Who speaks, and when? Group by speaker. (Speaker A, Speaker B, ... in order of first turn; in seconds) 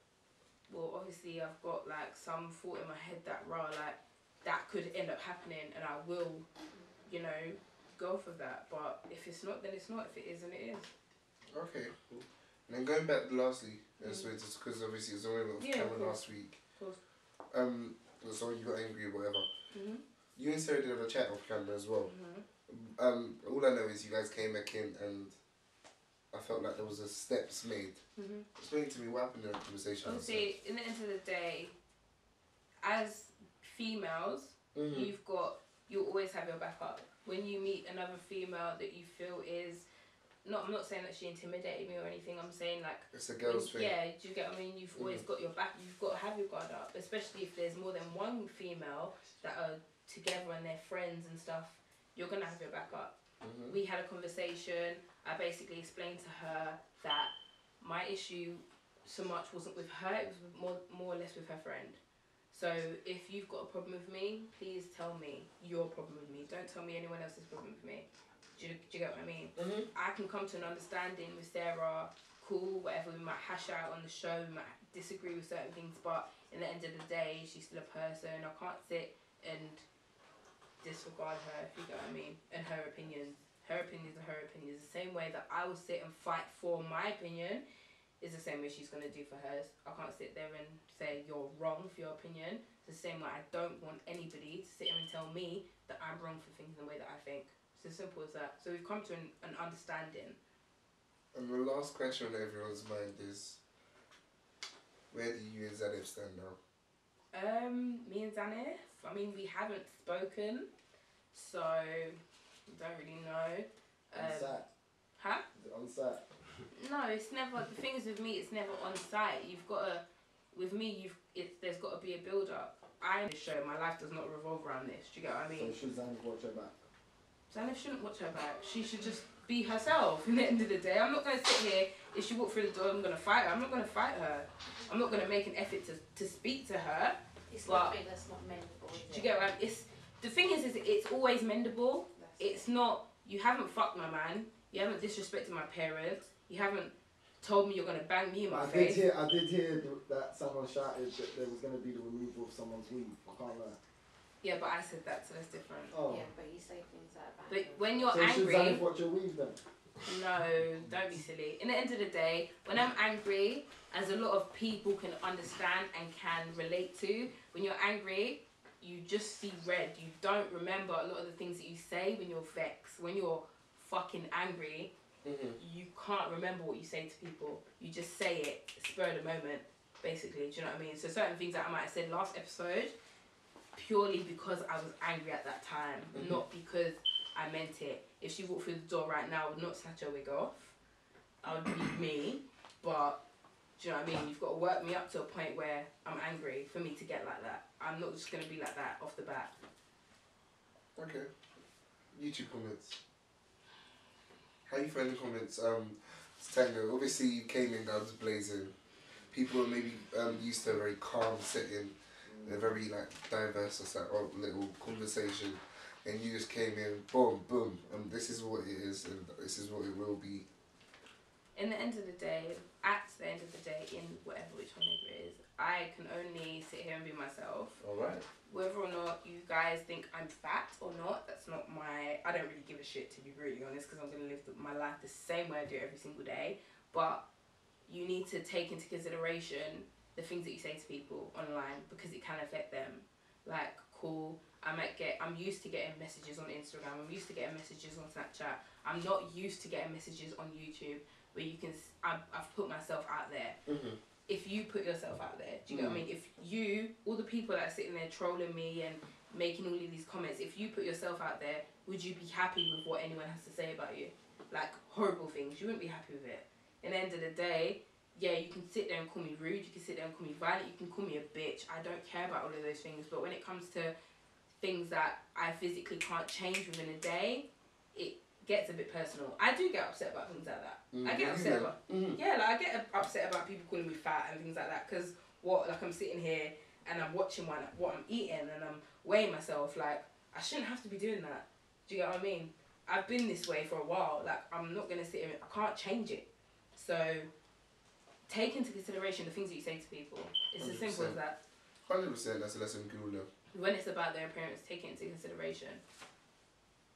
Speaker A: 0.7-6.5, 7.0-10.9, 14.0-14.3, 15.6-16.2, 16.7-17.0, 19.7-20.0, 22.0-22.4, 28.1-28.5, 30.0-31.7, 32.8-39.9, 40.4-53.1, 53.6-62.0, 62.5-79.8, 80.8-87.6, 88.2-100.4, 107.3-110.7, 111.3-114.6, 115.2-115.4, 116.7-125.8, 127.5-138.0, 139.0-149.0, 154.4-155.9, 157.5-158.8, 160.0-174.9, 175.6-182.9, 183.7-190.7, 191.4-193.2, 193.8-199.5, 221.5-227.8, 228.4-237.2, 237.9-253.6, 254.3-273.9, 274.6-297.3, 298.3-301.4, 303.5-305.8
Speaker B: 11.5-11.9, 12.7-16.6, 17.5-19.5, 20.4-22.1, 22.7-25.3, 26.3-28.0, 28.6-30.5, 34.7-35.1, 43.1-43.9, 45.0-45.2, 53.4-53.8, 69.5-69.9, 101.3-103.6, 105.1-106.6, 175.2-175.6, 186.1-186.4, 200.9-201.3, 202.1-203.0, 204.7-208.7, 209.3-220.4, 227.8-228.2, 253.7-254.0, 255.7-256.0, 280.9-282.2, 300.6-301.2, 301.9-303.3
Speaker C: 114.1-114.7, 115.5-116.2, 125.5-126.8, 148.5-153.8, 155.9-156.3, 158.1-159.6, 212.2-212.7
Speaker D: 137.5-139.3, 142.1-142.6, 156.1-158.2